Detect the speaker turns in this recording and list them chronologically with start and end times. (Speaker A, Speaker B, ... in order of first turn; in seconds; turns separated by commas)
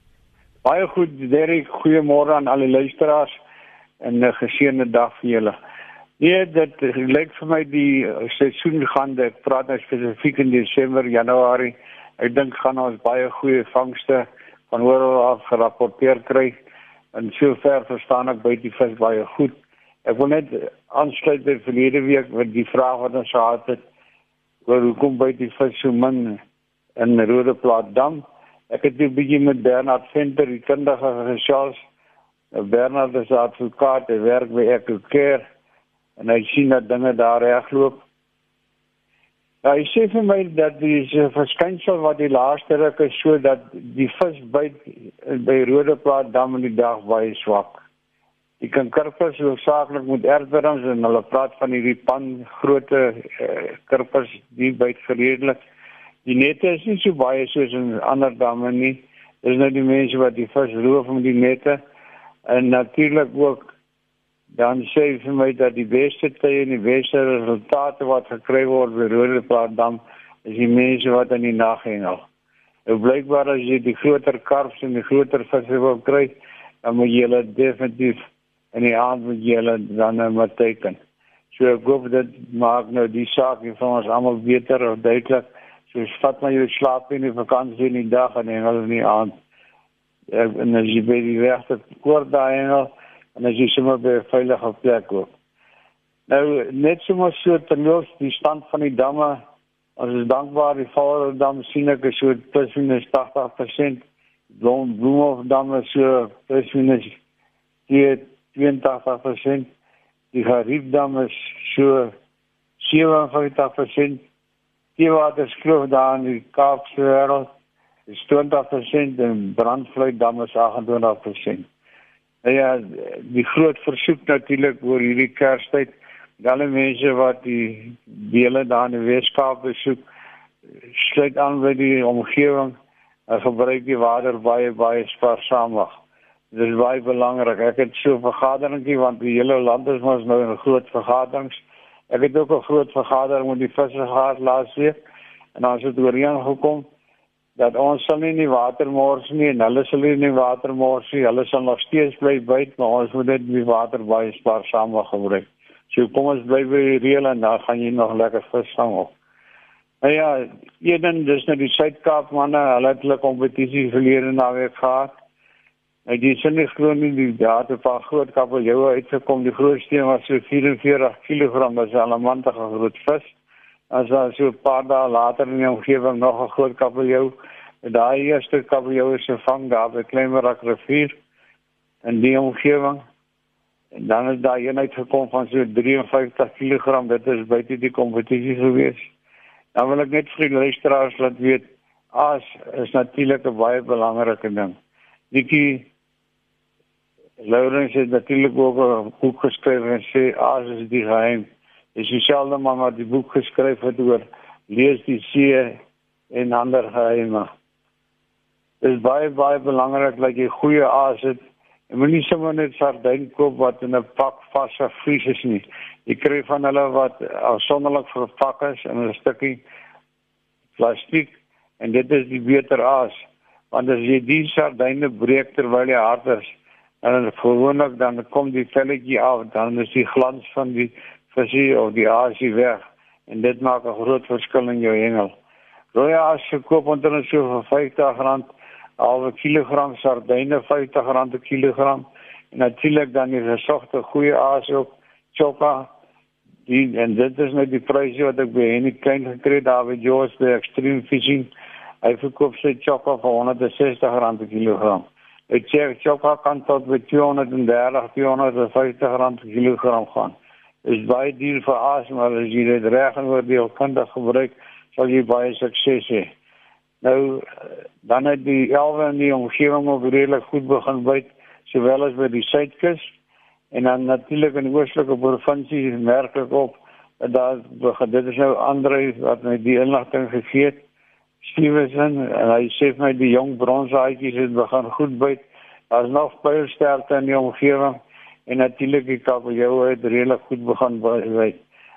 Speaker A: 0.7-3.3, Speaker A: 4.0-5.5, Speaker A: 6.2-16.5, Speaker A: 17.1-19.5, Speaker A: 20.1-23.8, Speaker A: 24.7-26.4, Speaker A: 27.0-31.8, Speaker A: 32.5-35.4, Speaker A: 36.2-38.0, Speaker A: 39.6-47.8, Speaker A: 48.6-55.6, Speaker A: 56.2-61.8, Speaker A: 62.5-63.7, Speaker A: 64.5-72.2, Speaker A: 72.9-78.2, Speaker A: 78.7-81.0, Speaker A: 81.5-89.3, Speaker A: 90.3-95.3, Speaker A: 96.3-99.4, Speaker A: 100.0-104.0, Speaker A: 104.5-107.1, Speaker A: 107.9-109.7, Speaker A: 110.3-112.1, Speaker A: 112.8-114.2, Speaker A: 115.0-117.5, Speaker A: 118.1-121.6, Speaker A: 122.4-130.0, Speaker A: 130.9-132.8, Speaker A: 133.3-135.9, Speaker A: 136.5-141.6, Speaker A: 142.1-144.9, Speaker A: 145.6-146.8, Speaker A: 147.6-159.1, Speaker A: 160.0-165.1, Speaker A: 166.1-173.3, Speaker A: 173.9-181.1, Speaker A: 182.1-183.0, Speaker A: 183.9-189.0, Speaker A: 189.8-194.7, Speaker A: 195.3-195.9, Speaker A: 197.4-205.8, Speaker A: 206.3-207.5, Speaker A: 208.8-211.4, Speaker A: 211.9-219.6, Speaker A: 220.8-223.1, Speaker A: 223.7-226.4, Speaker A: 227.0-235.3, Speaker A: 235.9-238.5, Speaker A: 239.0-245.9, Speaker A: 246.7-251.5, Speaker A: 252.0-260.3, Speaker A: 260.9-266.3, Speaker A: 267.0-273.0, Speaker A: 273.7-280.8, Speaker A: 281.4-291.6